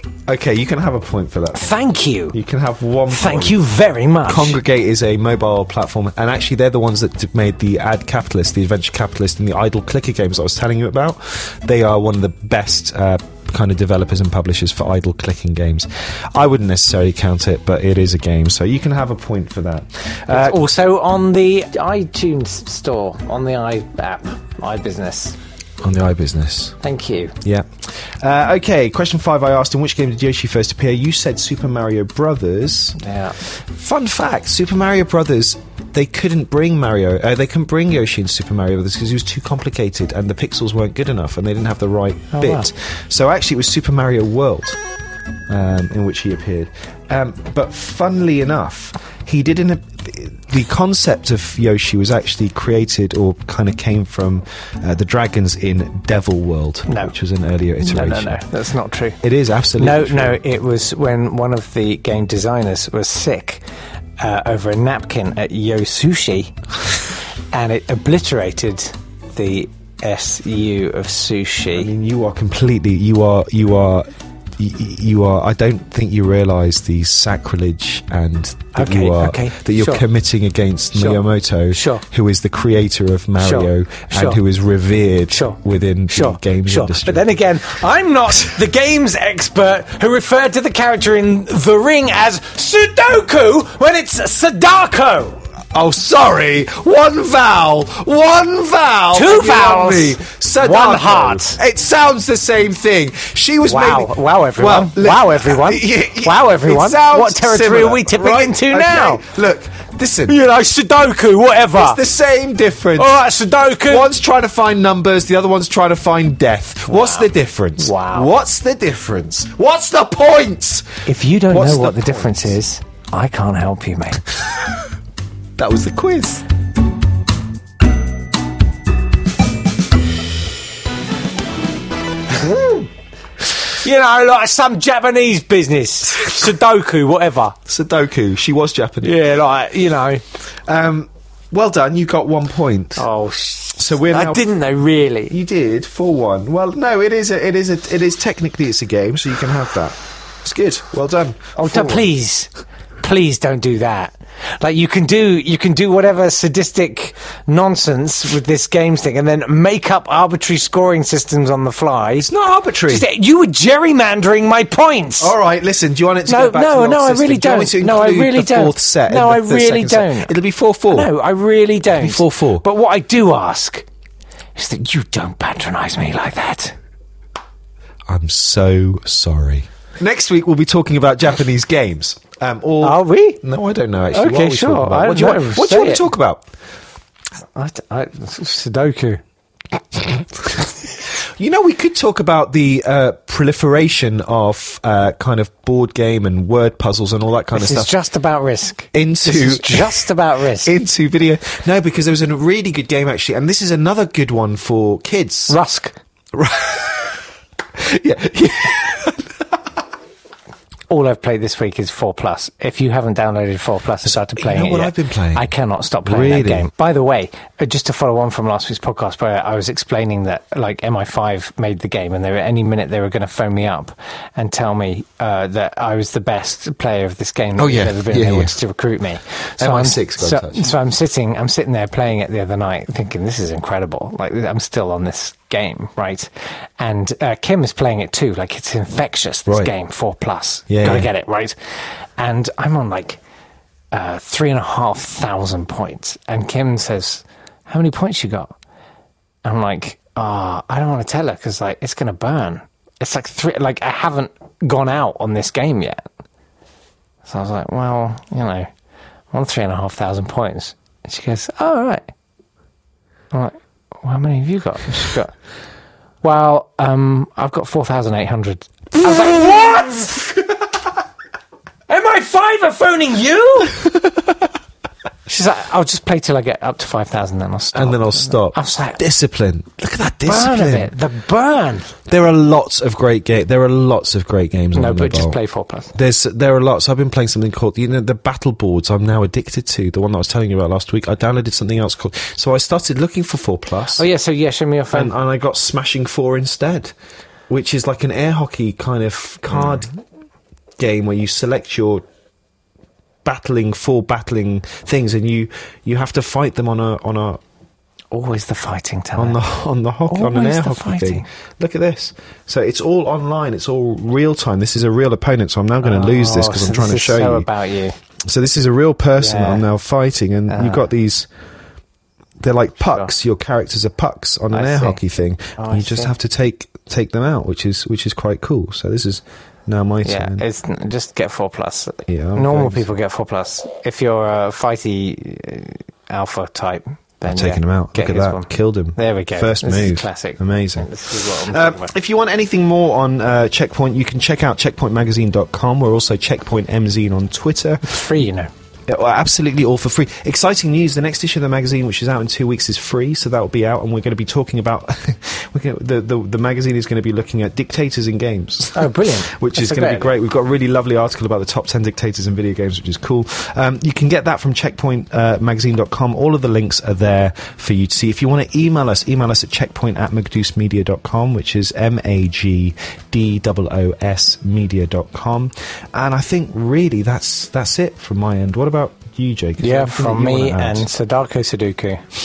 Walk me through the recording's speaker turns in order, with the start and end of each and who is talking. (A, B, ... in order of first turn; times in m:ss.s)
0:00.3-0:01.7 A
0:01.5-0:02.4 B
0:02.3-0:03.6 A
0:03.1-0:04.6 B
0:04.2-0:20.6 A
0:20.3-0:25.4 B
0:25.8-0:26.8 A
0:26.8-0:27.4 B
0:27.4-0:33.0 A
0:33.0-0:33.4 B
0:33.5-0:44.8 A
0:42.3-0:42.7 B
0:45.5-0:58.4 A
0:56.9-0:57.1 B
0:57.8-0:59.2 B
0:59.2-1:00.4 A
0:59.8-1:03.6 B
1:04.2-1:06.6 B
1:07.5-1:11.9 B
1:11.7-1:27.4 A
1:18.7-1:20.1 B
1:20.9-1:22.0 B
1:23.4-1:24.4 B
1:25.3-1:35.4 B
1:35.7-1:50.4 A
1:39.1-1:41.6 B
1:43.7-1:49.2 B
1:50.3-1:52.0 B
1:51.7-1:53.2 A
1:53.0-1:54.1 B
1:53.9-2:02.6 A
1:56.9-1:58.3 B
2:01.0-2:04.2 B
2:05.6-2:06.4 A
2:12.3-2:12.9 B
2:13.6-2:17.6 B
2:17.7-2:19.2 A
2:19.0-2:20.2 B
2:20.5-2:23.1 A
2:23.0-2:25.4 B
2:23.8-2:24.4 A
2:25.3-2:32.1 A
2:31.6-2:42.3 B
2:42.2-2:43.1 A
2:42.9-2:45.4 B
2:45.2-2:51.1 A
2:46.3-2:50.3 B
2:50.9-2:53.8 B
2:52.0-2:52.6 A
2:54.6-2:56.8 B
2:58.1-3:06.5 A
3:02.8-3:03.4 B
3:04.1-3:06.1 B
3:07.5-3:09.2 B
3:11.1-3:17.9 A
3:17.5-3:20.7 B
3:18.9-3:20.1 A
3:20.6-3:25.6 A
3:25.5-3:26.0 B
3:26.3-3:29.5 A
3:30.9-4:03.2 B
3:34.0-3:35.5 A
3:36.0-3:36.7 A
3:47.6-3:48.6 A
3:49.6-3:50.7 A
3:59.5-3:59.7 A
4:00.7-4:01.1 A
4:03.9-4:08.5 B
4:09.4-4:16.0 B
4:17.2-4:18.7 B
4:19.3-4:22.1 B
4:23.3-4:25.4 B
4:26.2-4:30.4 B
4:31.9-4:33.8 B
4:35.3-4:39.0 B
4:37.7-4:40.9 A
4:40.3-4:41.9 B
4:42.1-4:45.4 A
4:44.7-4:45.9 B
4:45.9-4:54.0 A
4:54.0-4:55.2 B
4:54.9-4:56.9 A
4:57.5-4:59.9 A
5:00.8-5:02.0 A
5:03.2-5:07.4 A
5:08.1-5:09.4 B
5:09.2-5:17.5 A
5:10.1-5:11.3 B
5:15.8-5:18.0 B
5:18.2-5:21.3 A
5:19.2-5:19.7 B
5:20.5-5:20.9 B
5:22.4-5:30.4 A
5:24.5-5:25.0 B
5:25.6-5:26.1 B
5:30.0-5:41.9 B
5:32.1-5:32.9 A
5:37.3-5:48.0 A
5:47.8-5:48.5 B
5:48.9-6:20.9 A
5:58.7-6:00.1 B
6:19.6-6:22.0 B